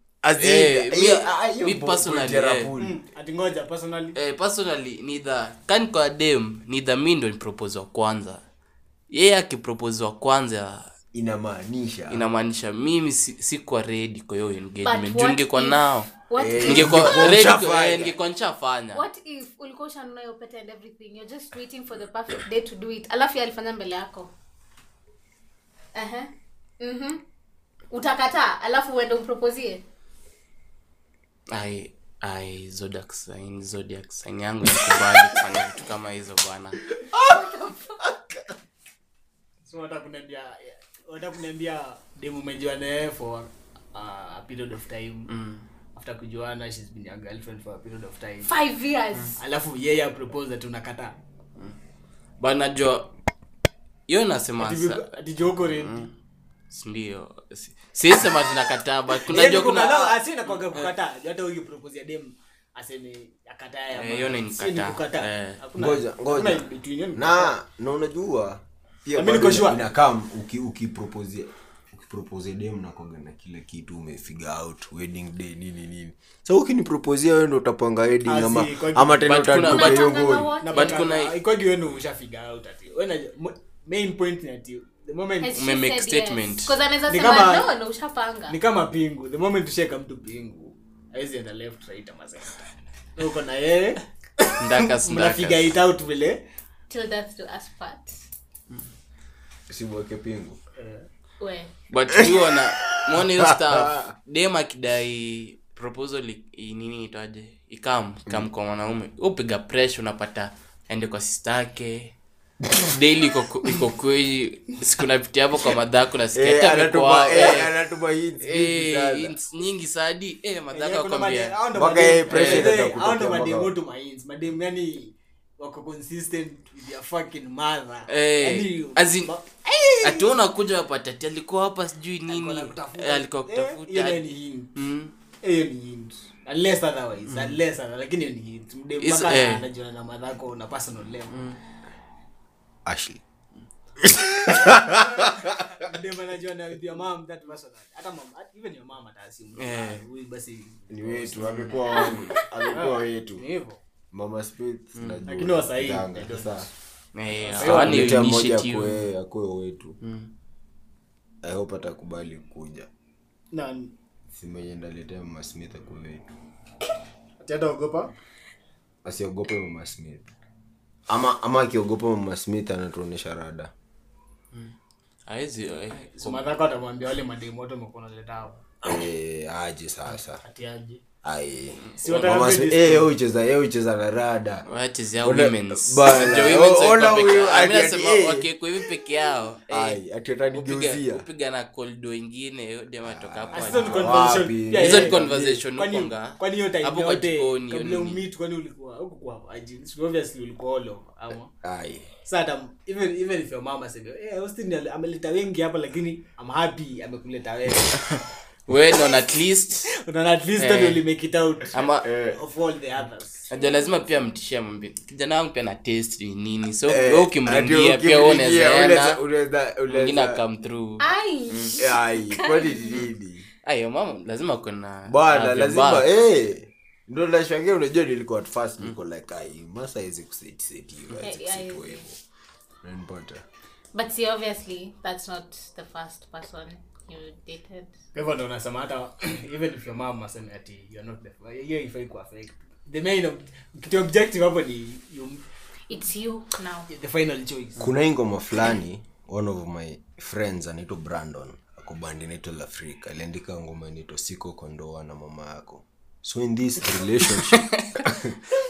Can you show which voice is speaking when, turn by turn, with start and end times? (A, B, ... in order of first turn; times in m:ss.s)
0:00.2-0:03.0 A
0:00.4-0:02.7 B
0:02.8-0:04.2 C
0:04.1-0:08.4 B
0:09.1-0:10.9 B
0:11.1-0:12.2 A
0:12.1-0:19.0 B
0:14.8-0:17.3 D
0:16.4-0:18.1 A
0:18.9-0:24.3 D
0:25.9-0:27.2 D
0:27.9-0:29.8 D
0:31.5-0:36.8 B
0:37.0-0:38.1 A
0:37.2-0:38.0 D
0:39.6-0:45.3 C
0:45.3-0:45.6 B
0:45.9-0:48.5 C
0:48.4-0:49.4 D
0:49.4-0:51.1 C
0:52.4-0:53.1 B
0:54.1-0:55.1 B
0:54.6-0:56.1 C
0:55.8-0:56.1 B
0:56.7-1:00.9 B
0:59.3-1:07.5 C
1:03.9-1:05.6 B
1:05.8-1:20.5 A
1:09.1-1:09.8 C
1:18.2-1:19.4 C
1:19.2-1:20.1 B
1:19.6-1:21.1 D
1:20.6-1:25.6 C
1:20.7-1:21.3 B
1:25.4-1:28.6 D
1:25.5-1:26.8 B
1:27.1-1:27.7 C
1:28.5-1:32.6 C
1:33.2-1:36.4 C
1:34.6-1:35.8 B
1:36.9-1:38.2 D
1:39.7-1:40.6 A
1:40.8-1:41.1 C
1:41.4-1:41.7 D
1:41.9-1:52.1 B
1:42.1-1:42.4 A
1:43.1-1:44.1 A
1:52.8-1:57.7 B
1:56.3-1:59.3 A
1:58.4-2:01.6 B
2:00.7-2:10.3 C
2:01.7-2:03.7 A
2:02.3-2:02.7 B
2:08.1-2:09.3 B
2:10.0-2:14.2 B
2:12.3-2:14.7 C
2:14.8-2:15.1 B
2:15.4-2:21.4 C
2:17.3-2:17.6 B
2:19.0-2:19.6 B
2:21.3-2:21.6 B
2:22.8-2:23.2 A
2:24.0-2:25.9 A
2:25.8-2:32.2 C
2:29.6-2:30.0 B
2:30.9-2:33.4 A
2:31.4-2:32.0 B
2:32.7-2:33.8 C
2:34.1-2:36.7 A
2:35.0-2:35.2 B
2:35.3-2:36.7 C
2:37.1-2:39.1 B
2:37.5-2:38.2 C
2:37.6-2:40.0 A
2:40.0-2:40.3 B
2:41.4-2:42.9 A
2:43.5-2:43.9 C
2:44.3-2:46.3 A
2:47.4-2:48.1 C
2:49.0-2:50.3 A
2:51.1-2:53.7 A
2:55.3-2:56.5 B
2:56.0-2:58.7 C
2:58.8-3:00.4 A
3:00.4-3:01.0 C
3:01.2-3:04.6 A
3:01.8-3:02.3 B
3:02.0-3:03.1 C
3:04.6-3:10.0 B
3:05.2-3:08.5 A
3:09.7-3:11.2 A
3:10.5-3:18.2 B
3:13.0-3:15.6 A
3:13.5-3:21.5 C
3:21.6-3:22.1 A
3:22.2-3:28.0 C
3:28.0-3:29.9 B
3:29.9-3:33.5 C
3:30.6-3:31.0 B
3:31.7-3:32.1 B
3:32.0-3:32.4 A
3:33.5-3:39.2 B
3:33.5-3:33.9 D
3:36.9-3:40.4 A
3:39.9-3:41.7 B
3:41.0-3:43.0 D
3:41.8-3:43.5 A
3:43.6-3:46.0 B
3:45.1-3:52.2 A
3:51.1-3:52.1 D
3:52.8-3:53.4 A
3:53.9-3:57.9 D
3:58.1-4:05.4 C
4:05.9-4:06.9 D
4:06.9-4:07.9 C
4:07.8-4:18.4 A